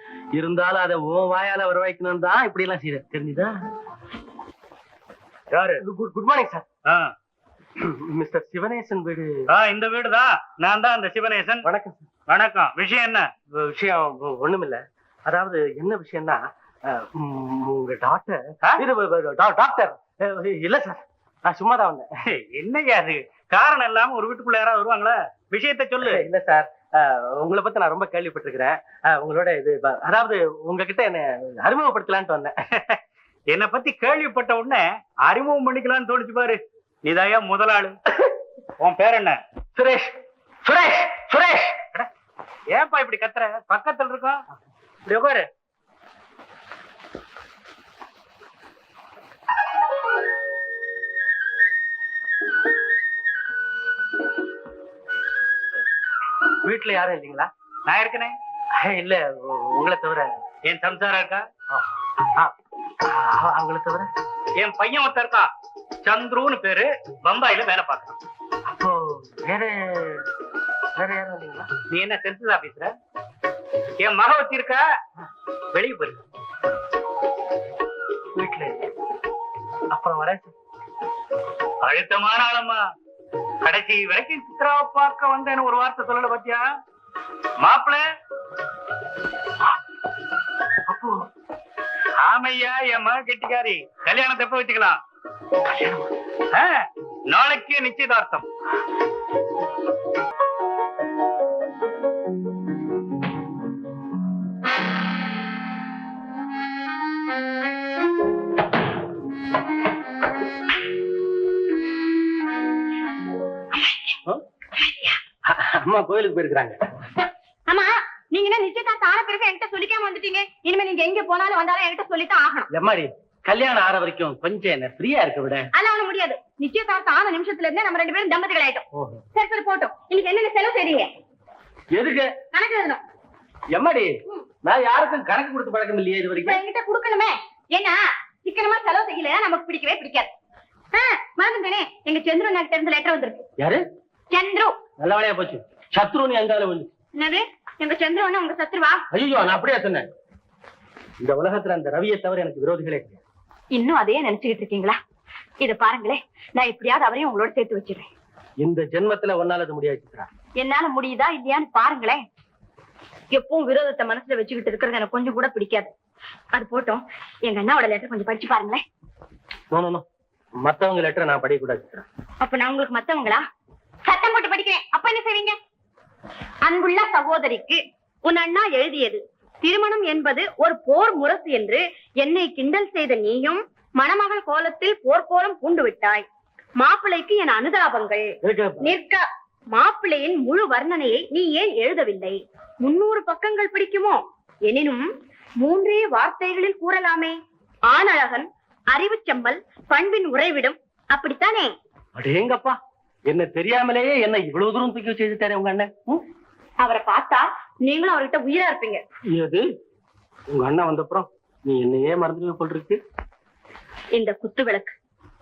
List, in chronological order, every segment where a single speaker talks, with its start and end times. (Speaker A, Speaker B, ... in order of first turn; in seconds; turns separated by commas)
Speaker A: 0.3-3.5, Speaker B: 5.5-5.8, Speaker A: 5.8-6.7, Speaker A: 7.8-9.3, Speaker B: 9.5-11.6, Speaker A: 11.6-12.1, Speaker B: 12.3-13.3, Speaker A: 13.5-22.1, Speaker B: 22.3-26.2, Speaker A: 26.0-32.5, Speaker B: 33.5-38.0, Speaker B: 38.8-39.4, Speaker A: 39.8-40.1, Speaker A: 40.6-41.8, Speaker B: 42.7-44.4, Speaker B: 45.1-45.5, Speaker A: 56.6-57.5, Speaker B: 57.9-58.4, Speaker A: 58.8-60.4, Speaker B: 60.6-61.5, Speaker A: 63.0-64.1, Speaker B: 64.6-65.5, Speaker B: 66.0-68.2, Speaker A: 68.7-70.2, Speaker A: 71.0-71.7, Speaker B: 71.9-72.9, Speaker B: 74.0-74.8, Speaker B: 75.7-76.2, Speaker A: 78.3-78.9, Speaker A: 79.9-80.5, Speaker B: 81.8-82.8, Speaker B: 83.6-86.6, Speaker B: 87.6-88.0, Speaker B: 92.2-95.0, Speaker B: 95.7-96.0, Speaker B: 96.5-98.5, Speaker C: 114.8-115.2, Speaker A: 115.5-116.8, Speaker C: 117.7-122.7, Speaker A: 122.7-125.7, Speaker C: 125.7-131.1, Speaker A: 128.9-129.2, Speaker A: 131.9-132.3, Speaker C: 132.5-133.0, Speaker A: 133.7-134.1, Speaker A: 134.6-136.6, Speaker C: 136.4-140.3, Speaker C: 140.9-143.4, Speaker C: 144.3-144.8, Speaker A: 145.0-146.9, Speaker C: 147.2-149.0, Speaker A: 149.1-150.1, Speaker A: 151.2-153.2, Speaker C: 153.7-155.0, Speaker C: 155.6-158.1, Speaker A: 158.6-160.3, Speaker C: 160.6-162.2, Speaker C: 163.3-165.9, Speaker C: 166.5-168.8, Speaker A: 169.7-170.1, Speaker A: 170.6-172.1, Speaker C: 172.4-173.4, Speaker C: 174.1-175.6, Speaker C: 176.6-186.3, Speaker C: 186.8-188.3, Speaker A: 188.4-188.9, Speaker C: 188.8-195.1, Speaker C: 195.6-201.7, Speaker A: 202.2-206.2, Speaker C: 206.8-209.0, Speaker A: 209.3-209.7, Speaker A: 210.5-213.0, Speaker C: 214.2-215.0